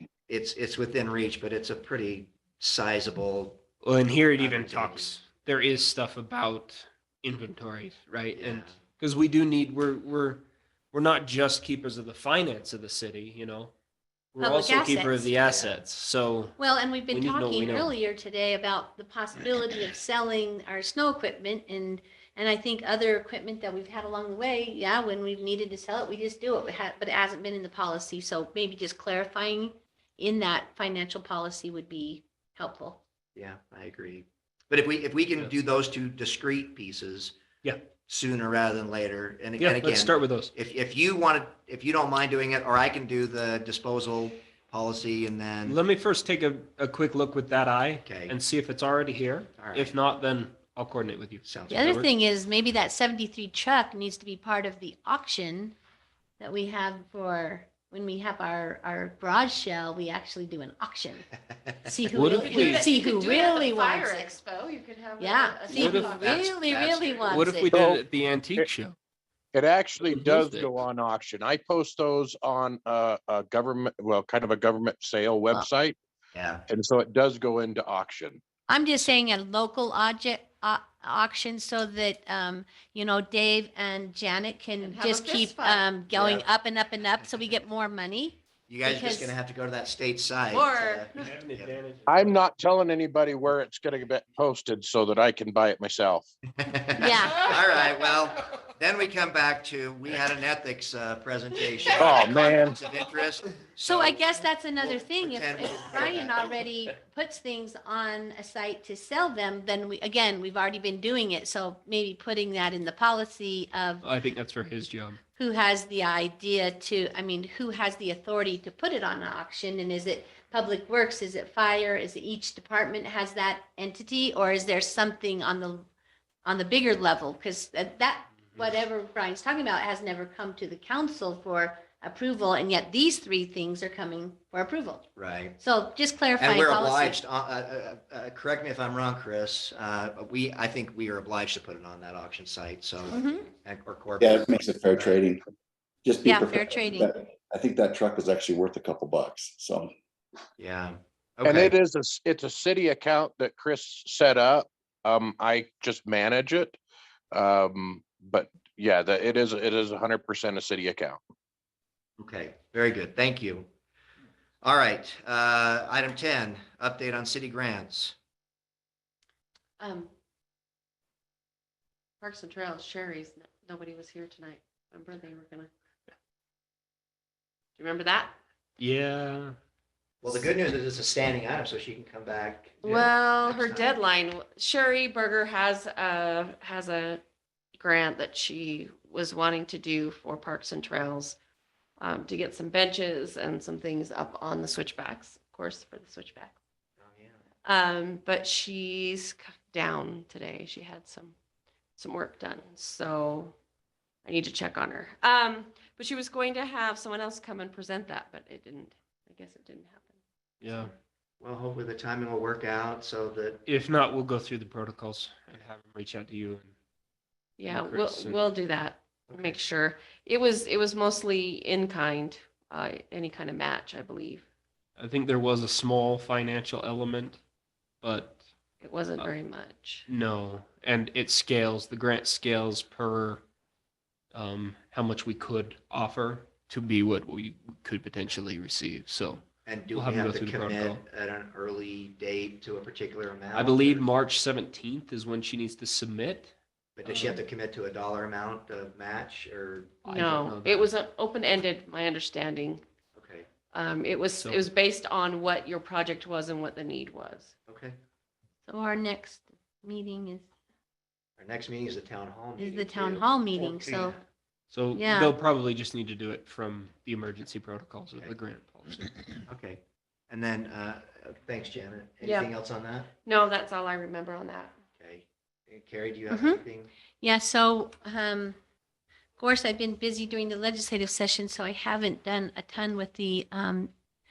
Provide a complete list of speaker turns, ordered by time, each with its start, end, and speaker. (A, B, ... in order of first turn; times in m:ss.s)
0:00.3-0:03.6 A
0:03.8-0:13.7 B
0:04.4-0:05.2 A
0:08.4-0:08.8 A
0:14.3-0:17.9 B
0:14.4-0:15.3 C
0:15.5-0:15.8 A
0:16.6-0:33.0 C
0:33.3-0:37.4 A
0:38.0-0:45.8 A
0:39.6-0:40.5 B
0:45.6-0:52.1 B
0:48.0-0:48.4 A
0:49.6-0:50.0 A
0:51.4-0:51.9 A
0:51.7-0:55.8 C
0:56.4-1:01.3 C
1:01.8-1:04.4 C
1:02.1-1:02.8 B
1:02.3-1:06.4 D
1:05.2-1:07.7 C
1:05.7-1:07.6 A
1:05.8-1:06.1 B
1:07.3-1:09.0 B
1:07.7-1:08.7 E
1:09.5-1:16.0 E
1:10.0-1:10.8 B
1:16.3-1:16.6 A
1:16.7-1:18.4 E
1:18.7-1:29.4 C
1:24.8-1:25.9 D
1:26.1-1:26.5 A
1:28.7-1:31.8 A
1:30.5-1:31.3 D
1:31.1-1:32.5 B
1:32.1-1:36.3 E
1:36.6-1:46.6 A
1:37.0-1:37.5 C
1:42.0-1:42.8 E
1:43.8-1:54.0 C
1:54.0-1:55.2 B
1:55.4-2:05.8 C
2:06.4-2:15.0 C
2:15.2-2:15.6 A
2:15.6-2:17.2 C
2:16.4-2:25.2 A
2:23.1-2:23.5 C
2:24.2-2:25.4 F
2:26.0-2:29.9 F
2:26.2-2:27.1 C
2:30.6-2:31.7 A
2:31.4-2:36.8 E
2:37.3-2:41.2 E
2:42.2-2:43.7 A
2:44.6-2:48.2 A
2:49.8-2:50.1 D
2:52.2-2:55.7 D
2:57.8-2:58.3 D
2:58.8-2:59.6 B
3:00.2-3:03.8 A
3:02.8-3:07.2 D
3:07.8-3:11.4 D
3:12.0-3:16.6 D
3:17.0-3:17.4 A
3:17.6-3:21.4 D
3:22.0-3:23.5 D
3:24.2-3:30.2 D
3:30.6-3:30.9 B
3:31.4-3:33.6 A
3:33.6-3:36.7 B
3:37.6-3:44.4 D
3:37.7-3:38.4 B
3:39.3-3:39.6 A
3:45.0-3:47.4 B
3:48.0-3:48.4 B
3:48.8-3:50.0 D
3:50.1-3:53.4 B
3:54.3-3:59.4 B
3:59.6-4:04.1 A
3:59.9-4:01.0 B
4:03.5-4:06.5 B
4:07.0-4:10.1 A
4:07.0-4:07.4 B
4:10.0-4:10.9 B
4:10.1-4:12.8 D
4:13.1-4:13.5 A
4:13.7-4:17.5 D
4:17.7-4:18.0 A
4:18.7-4:20.5 C
4:21.4-4:24.2 A
4:22.6-4:24.2 C
4:24.7-4:29.2 B
4:24.9-4:25.3 C
4:29.4-4:33.1 A
4:32.2-4:32.5 D
4:33.2-4:34.7 D
4:35.0-4:36.9 A
4:36.3-4:36.6 C
4:37.2-4:38.6 C
4:39.4-4:43.9 C